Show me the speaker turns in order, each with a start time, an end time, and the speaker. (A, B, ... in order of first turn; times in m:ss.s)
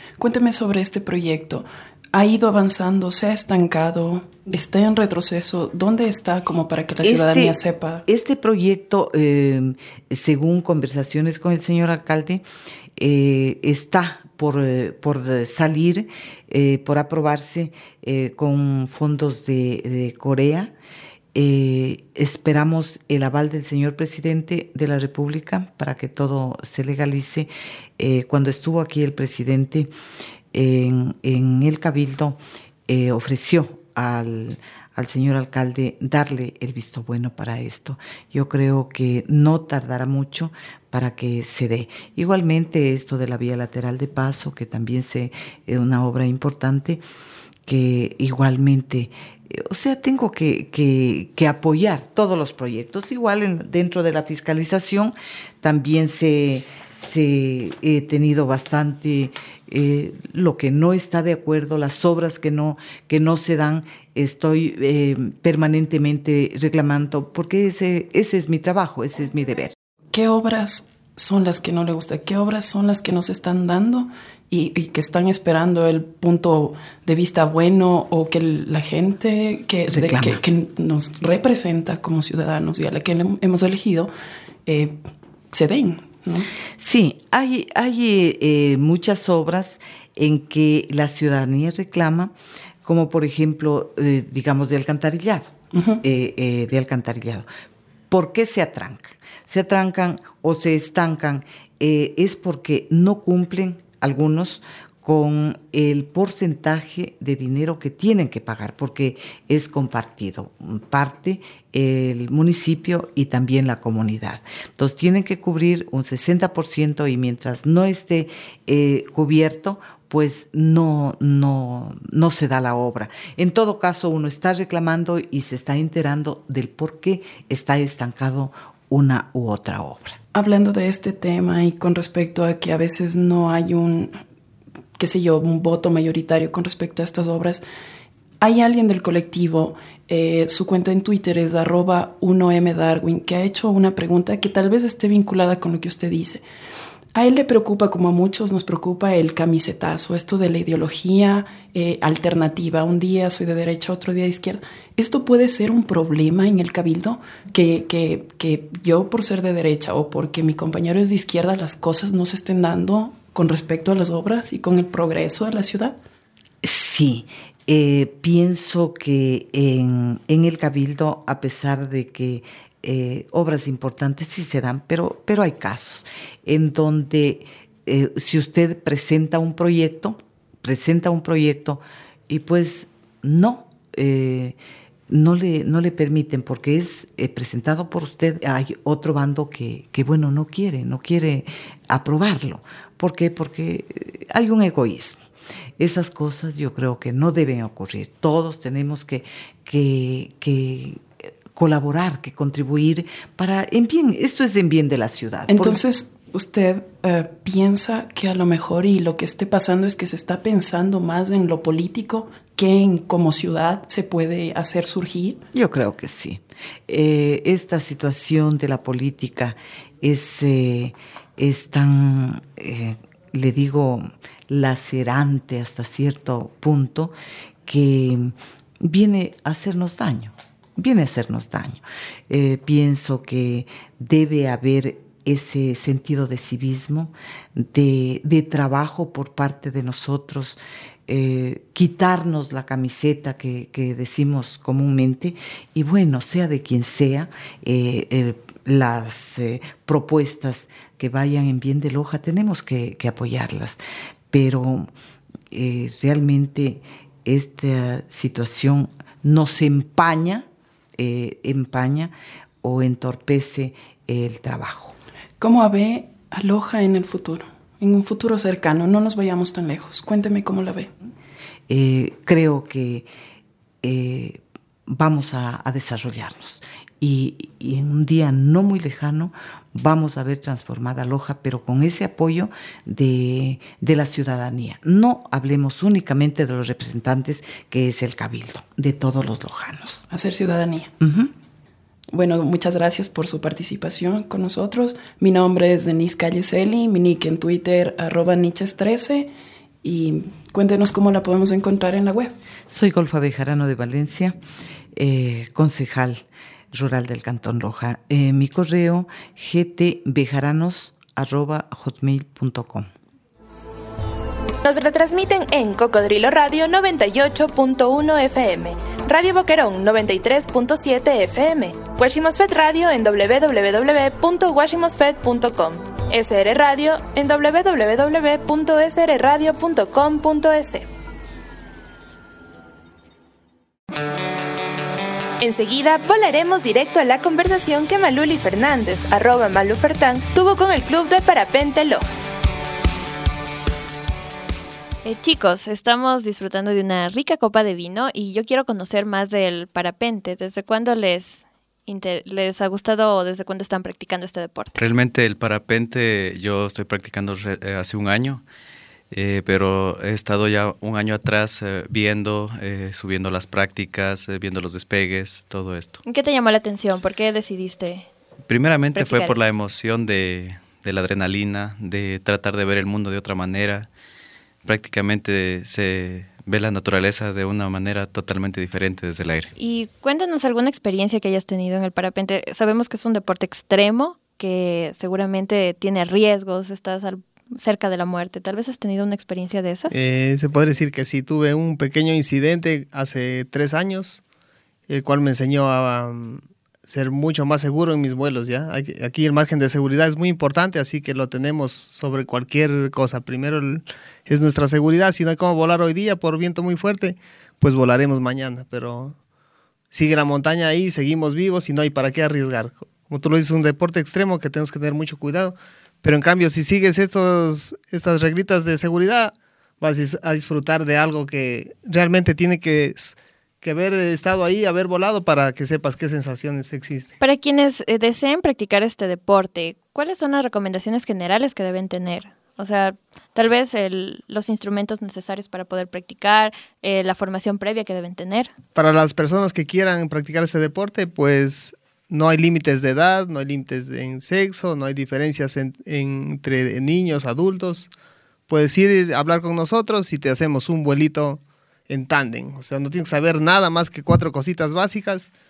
0:00.2-0:08.0 A
0:07.0-0:12.4 B
0:13.0-0:20.7 B
0:21.3-0:29.9 B
0:30.5-0:47.0 B
0:47.6-1:09.7 B
1:10.1-1:24.1 A
1:19.9-1:20.4 B
1:24.6-1:25.0 A
1:25.5-1:26.5 A
1:26.8-1:32.3 B
1:32.8-1:37.5 B
1:35.7-1:36.0 A
1:38.1-2:10.2 B
2:10.3-2:14.2 A
2:15.0-2:17.6 A
2:18.4-2:26.4 A
2:27.1-2:46.0 A
2:46.6-3:04.6 B
3:05.1-3:15.2 B
3:15.8-3:25.8 B
3:25.5-3:35.4 A
3:35.5-3:47.1 B
3:47.6-4:14.9 B
4:15.5-4:20.4 B
4:21.0-4:24.9 B
4:25.4-4:30.9 A
4:31.7-4:33.1 B
4:33.8-4:50.0 B
4:50.1-4:50.9 A
4:51.0-4:51.3 B
4:52.1-4:59.3 A
4:59.8-5:02.3 A
5:02.7-5:04.4 B
5:04.9-5:12.9 B
5:14.6-5:30.9 C
5:35.4-5:42.1 C
5:45.0-5:54.8 D
5:54.8-5:58.4 E
5:59.1-6:06.0 E
6:06.0-6:08.1 D
6:08.5-6:13.9 E
6:08.9-6:09.4 D
6:14.6-6:19.5 E
6:19.6-6:29.9 D
6:29.9-6:34.2 F
6:34.9-6:49.2 F
6:49.9-7:07.1 F
7:07.2-7:18.5 D
7:18.7-7:27.9 F
7:28.5-7:35.3 F